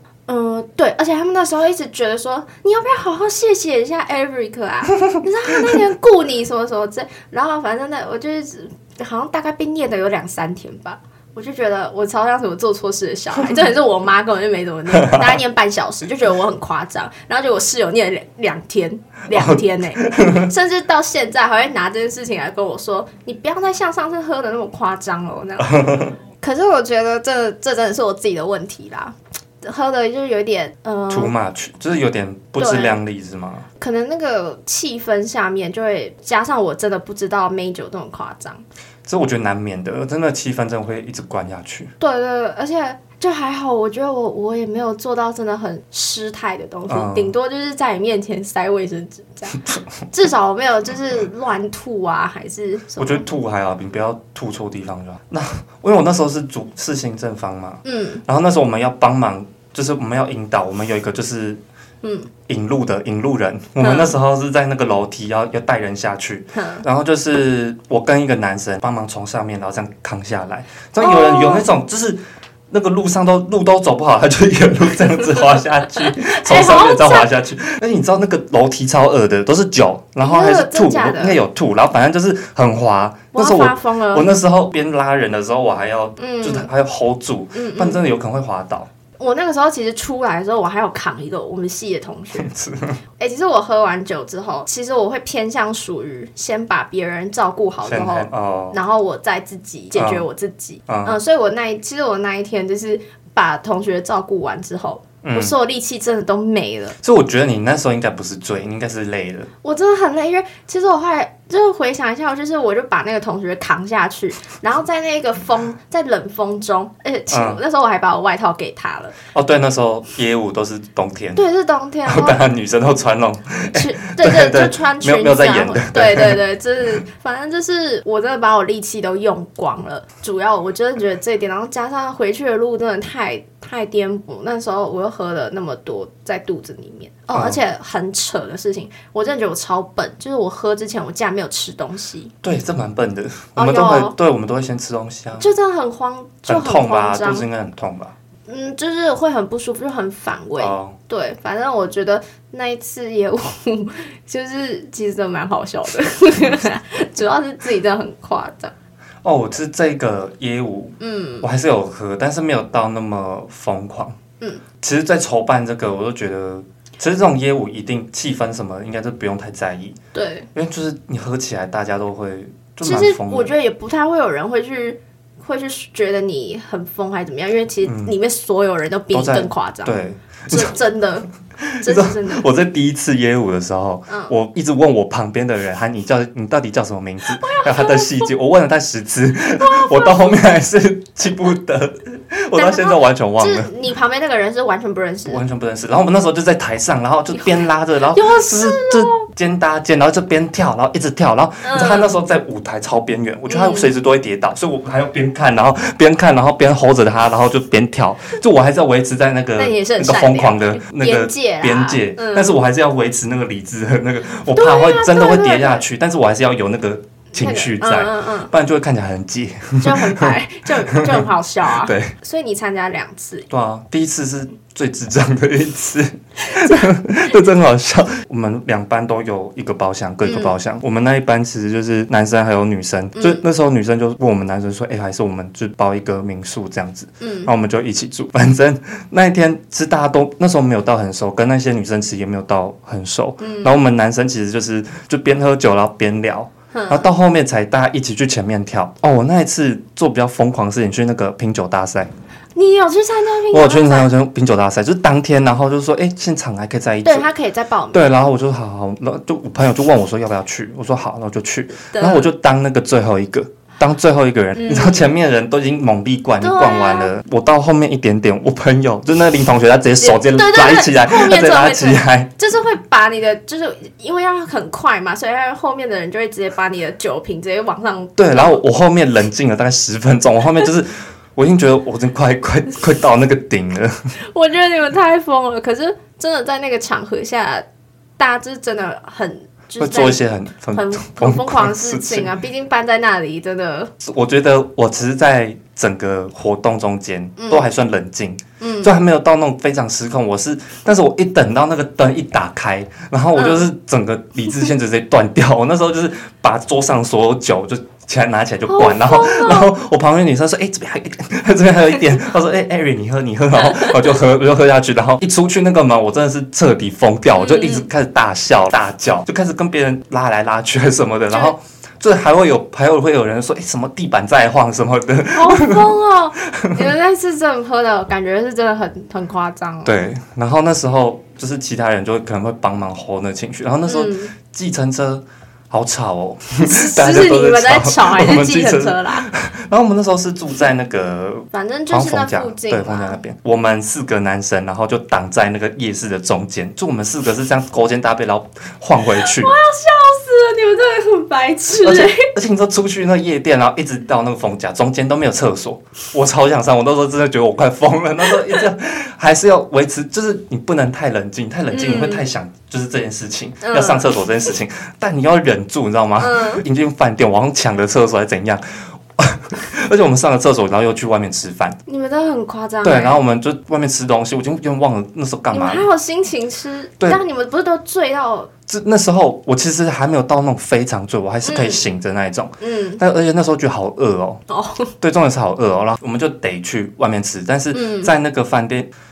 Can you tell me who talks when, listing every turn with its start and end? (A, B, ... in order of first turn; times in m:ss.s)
0:00.3-0:31.3 A
0:14.9-0:15.3 B
0:19.3-0:20.5 B
0:25.7-0:26.1 B
0:31.1-0:33.7 B
0:32.6-0:33.0 A
0:33.8-0:38.6 A
0:39.1-0:41.9 B
0:42.0-0:53.2 A
0:46.9-0:47.3 B
0:53.0-1:01.6 B
0:57.8-0:58.2 A
1:02.0-1:02.3 A
1:02.5-1:28.9 B
1:03.8-1:04.2 A
1:06.5-1:06.8 A
1:11.0-1:11.7 A
1:16.1-1:17.3 A
1:20.2-1:21.4 A
1:23.3-1:24.3 A
1:26.2-1:26.7 A
1:27.5-1:28.0 A
1:29.2-1:32.5 A
1:32.4-1:33.0 B
1:33.2-1:47.0 A
1:37.8-1:38.8 B
1:39.9-1:40.2 B
1:40.9-1:41.2 B
1:45.2-1:45.6 B
1:47.0-1:49.5 B
1:49.6-1:59.2 A
1:57.3-1:57.6 B
1:59.3-2:01.4 B
2:01.4-2:02.5 A
2:02.1-2:06.4 B
2:03.7-2:22.3 A
2:17.3-2:17.6 B
2:22.4-2:25.5 B
2:23.6-2:24.2 A
2:25.4-2:27.5 A
2:26.5-2:28.1 B
2:28.5-2:38.7 A
2:30.6-2:31.0 B
2:39.2-2:44.2 B
2:41.0-2:41.5 A
2:44.8-2:50.0 B
2:50.1-2:50.5 A
2:50.5-2:53.5 B
2:52.8-3:01.3 A
2:57.8-2:58.1 B
2:59.1-3:00.8 B
3:01.6-3:13.7 B
3:01.8-3:02.4 A
3:04.1-3:04.3 A
3:07.3-3:08.3 A
3:09.6-3:10.5 A
3:12.6-3:15.4 A
3:15.3-3:42.2 B
3:17.3-3:19.2 A
3:21.6-3:22.1 A
3:23.5-3:23.9 A
3:29.6-3:32.6 A
3:34.5-3:35.8 A
3:37.3-3:38.5 A
3:39.8-3:43.5 A
3:43.5-4:12.1 B
3:50.2-3:50.5 A
3:53.2-3:53.4 A
3:57.2-3:57.5 A
4:03.4-4:03.8 A
4:06.7-4:07.1 A
4:12.6-4:14.1 A
4:13.5-4:17.3 B
4:17.0-4:18.0 A
4:17.9-4:32.3 B
4:21.9-4:22.3 A
4:24.6-4:25.1 A
4:26.4-4:27.1 A
4:30.0-4:38.6 A
4:38.2-4:44.1 B
4:44.2-4:47.7 A
4:48.2-4:53.9 A
4:49.8-4:52.4 B
4:54.0-5:25.9 B
4:57.4-4:57.7 A
4:58.6-4:58.9 A
5:03.3-5:03.7 A
5:08.7-5:09.7 A
5:13.6-5:14.1 A
5:17.4-5:17.9 A
5:25.3-5:30.0 A
5:26.5-5:26.8 B
5:29.8-5:49.5 B
5:33.9-5:34.3 A
5:36.6-5:39.3 A
5:41.5-5:43.2 A
5:49.2-5:52.3 A
5:51.8-6:11.8 B
6:01.7-6:02.3 A
6:03.6-6:04.1 A
6:06.2-6:06.6 A
6:11.9-6:13.2 A
6:12.8-6:15.9 B
6:15.5-6:18.5 A
6:18.7-6:24.4 B
6:21.4-6:21.8 A
6:22.6-6:23.0 A
6:24.5-6:24.9 A
6:25.0-6:28.9 B
6:27.7-6:28.1 A